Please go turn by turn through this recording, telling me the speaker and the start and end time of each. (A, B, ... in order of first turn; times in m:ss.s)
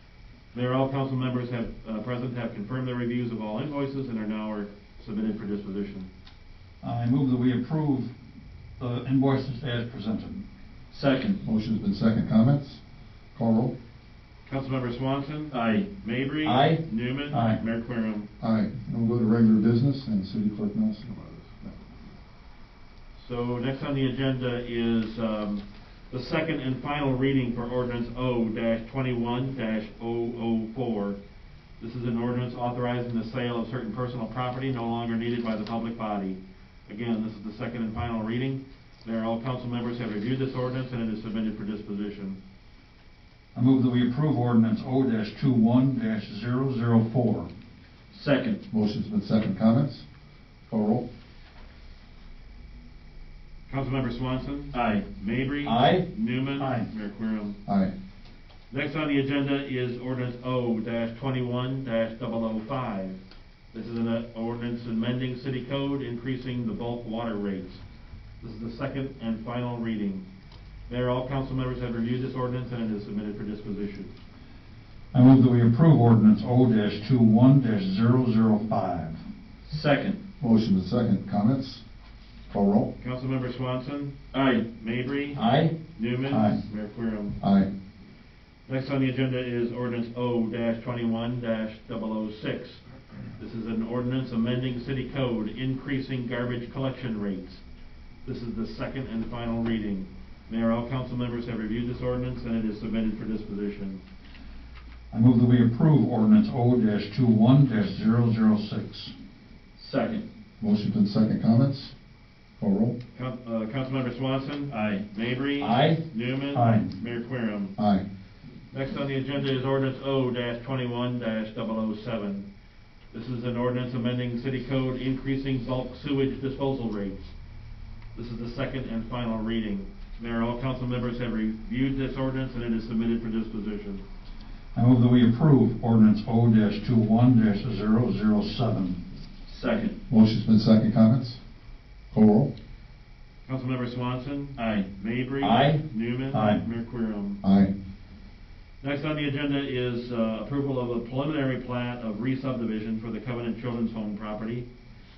0:00.5-0:06.1 A
0:06.8-0:08.1 B
0:08.8-0:10.4 B
0:10.9-0:11.4 C
0:11.4-0:12.8 D
0:13.3-0:13.7 D
0:14.4-0:18.3 A
0:15.5-0:15.9 C
0:16.4-0:16.8 C
0:17.3-0:17.6 B
0:18.4-0:21.8 D
0:23.2-0:31.2 A
0:31.8-0:42.4 A
0:43.5-0:47.5 B
0:48.1-0:48.6 C
0:48.7-0:50.1 D
0:50.7-0:51.0 D
0:53.7-0:57.6 A
0:54.7-0:55.1 C
0:55.6-0:56.0 C
0:56.6-0:56.9 B
0:57.6-0:57.9 D
0:58.7-1:03.2 A
1:03.7-1:07.8 A
1:08.4-1:10.2 A
1:10.9-1:14.1 A
1:15.1-1:19.2 B
1:19.6-1:20.2 C
1:20.4-1:21.8 D
1:22.5-1:22.9 D
1:23.0-1:24.2 A
1:24.3-1:24.6 C
1:24.7-1:27.4 A
1:25.3-1:25.7 C
1:26.3-1:26.6 B
1:27.4-1:27.7 D
1:28.7-1:32.8 A
1:33.4-1:37.6 A
1:38.2-1:44.0 A
1:45.1-1:49.1 B
1:49.8-1:50.2 C
1:50.6-1:51.9 D
1:52.6-1:53.0 D
1:53.1-1:57.7 A
1:54.7-1:55.0 C
1:55.6-1:56.0 C
1:56.5-1:56.9 B
1:57.8-1:58.0 D
1:58.7-2:02.4 A
2:03.1-2:07.2 A
2:08.1-2:14.0 A
2:14.7-2:19.0 B
2:19.4-2:19.9 C
2:20.1-2:21.4 D
2:22.1-2:22.5 D
2:23.4-2:27.4 A
2:24.6-2:24.9 C
2:25.4-2:25.8 C
2:26.3-2:26.6 B
2:27.4-2:27.7 D
2:28.8-2:34.7 A